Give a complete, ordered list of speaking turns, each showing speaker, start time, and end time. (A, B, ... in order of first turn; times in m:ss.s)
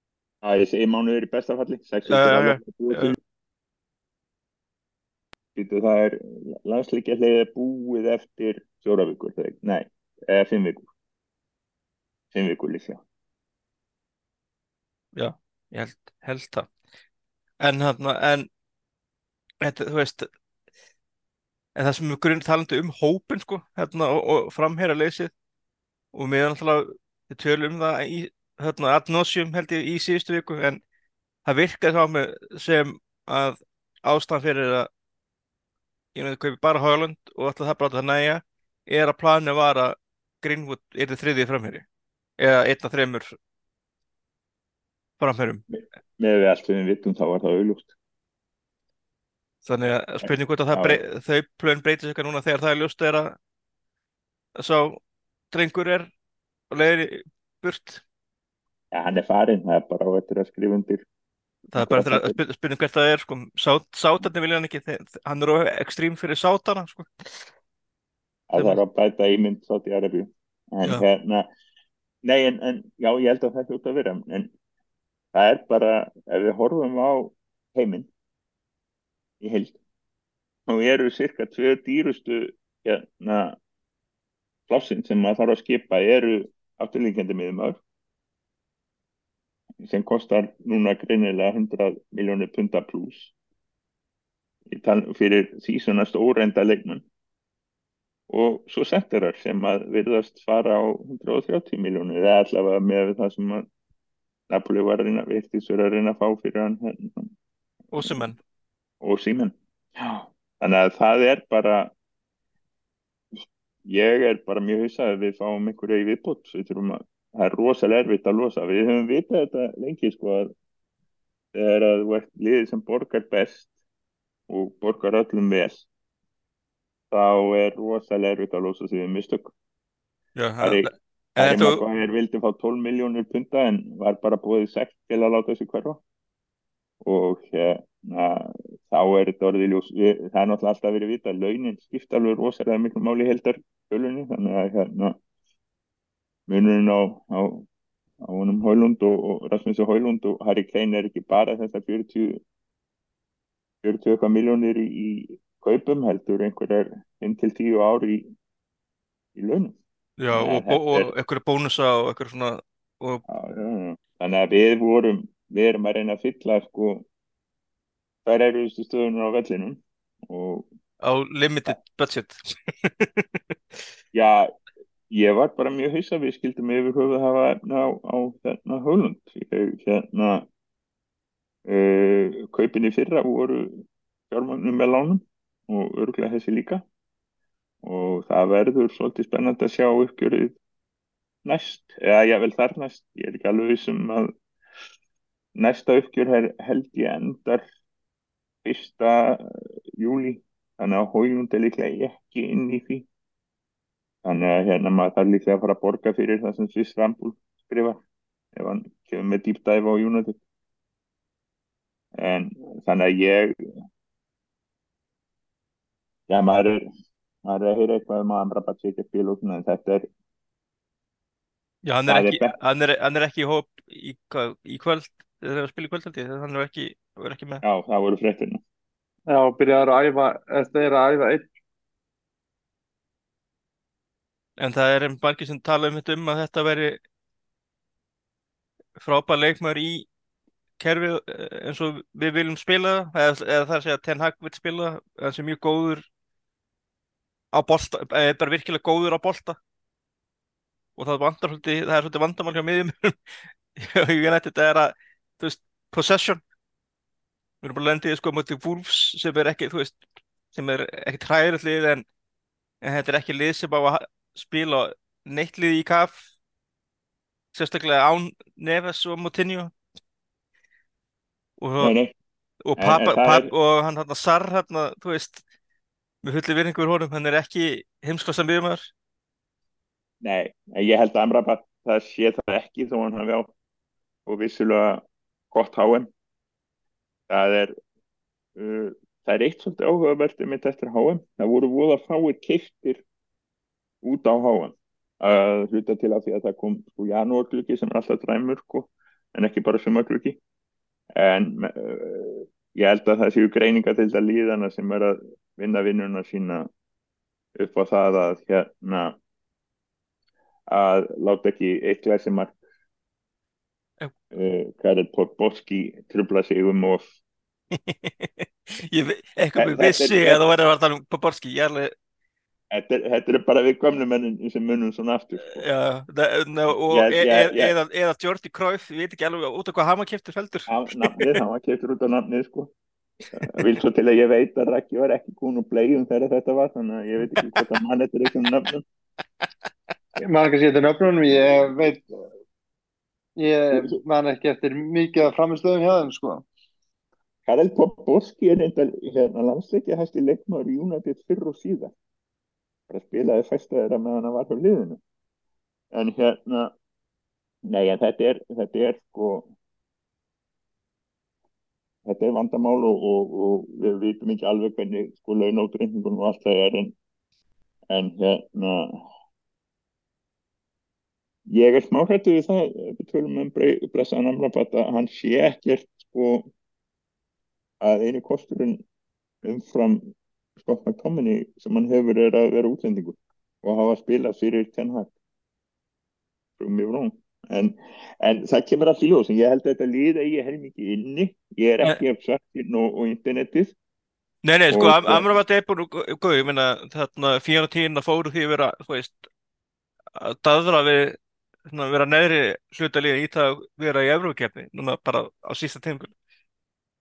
0:00.4-0:03.2 A
0:02.1-0:03.1 B
0:05.5-0:10.9 A
0:12.3-0:13.0 A
0:15.1-0:16.7 B
0:17.6-0:18.5 B
0:19.6-0:20.3 B
0:21.8-0:25.3 B
0:26.1-0:30.8 B
0:31.4-0:34.9 B
0:36.1-0:41.8 B
0:42.4-0:43.4 B
0:45.2-0:45.6 B
0:45.7-0:47.9 A
0:49.6-0:53.4 B
0:50.2-0:51.0 A
0:54.6-0:56.1 B
0:56.7-0:58.0 B
0:58.9-1:01.0 A
1:01.7-1:07.4 B
1:01.8-1:02.4 A
1:08.5-1:11.5 A
1:12.2-1:14.5 A
1:15.3-1:18.1 A
1:19.4-1:19.8 A
1:20.7-1:23.6 A
1:24.7-1:27.8 A
1:29.8-1:33.3 A
1:34.7-1:37.0 A
1:38.3-1:43.7 A
1:44.5-1:47.3 A
1:47.9-1:48.4 B
1:49.0-1:51.9 A
1:53.8-2:00.5 A
2:01.5-2:03.7 A
2:04.5-2:05.9 A
2:07.1-2:09.5 A
2:10.4-2:11.8 B
2:10.6-2:16.0 A
2:17.0-2:25.2 A
2:26.5-2:27.7 A
2:28.2-2:32.4 A
2:33.8-2:38.2 A
2:39.3-2:39.8 A
2:40.2-2:43.2 B
2:40.3-2:41.1 A
2:43.2-2:47.0 A
2:48.2-2:50.6 A
2:51.0-2:53.8 B
2:54.1-2:54.5 A
2:55.1-3:00.5 A
3:01.6-3:06.8 A
3:07.8-3:10.6 A
3:11.4-3:14.3 A
3:15.5-3:17.6 A
3:18.6-3:23.1 A
3:24.2-3:28.0 A
3:28.5-3:30.4 A
3:32.2-3:33.6 A
3:36.3-3:36.8 A
3:37.4-3:40.1 A
3:41.8-3:47.6 B
3:42.1-3:42.5 A
3:47.6-3:48.6 A
3:49.3-3:51.5 C
3:54.6-3:57.0 B
3:59.0-4:00.1 B
4:00.8-4:06.1 B
4:07.5-4:09.6 B
4:11.0-4:13.2 B
4:13.8-4:16.4 B
4:17.6-4:20.0 B
4:20.5-4:22.0 B
4:22.8-4:26.2 B
4:27.5-4:29.7 B
4:31.6-4:31.9 B
4:31.8-4:32.1 A
4:32.6-4:35.4 B
4:32.8-4:33.5 A
4:36.2-4:38.9 B
4:40.2-4:43.5 A
4:44.2-4:46.1 A
4:47.3-4:47.7 A
4:48.6-4:53.0 A
4:54.0-5:00.4 A
5:01.2-5:06.7 A
5:07.6-5:09.2 A
5:10.7-5:12.6 A
5:14.3-5:17.1 A
5:17.7-5:21.9 B
5:19.6-5:20.5 A
5:22.7-5:25.6 A
5:25.5-5:31.4 B
5:26.9-5:27.7 A
5:30.7-5:32.7 A
5:33.4-5:38.8 A
5:40.2-5:42.1 C
5:43.4-5:46.4 C
5:43.7-5:44.0 A
5:47.4-5:51.9 A
5:52.9-5:55.0 A
5:55.9-5:56.7 A
5:57.6-5:59.5 A
6:02.0-6:06.9 A
6:07.9-6:09.0 A
6:11.5-6:16.5 A
6:17.8-6:18.8 A
6:19.4-6:25.1 A
6:26.6-6:33.7 A
6:34.4-6:39.2 B
6:34.7-6:35.2 A
6:40.1-6:46.1 B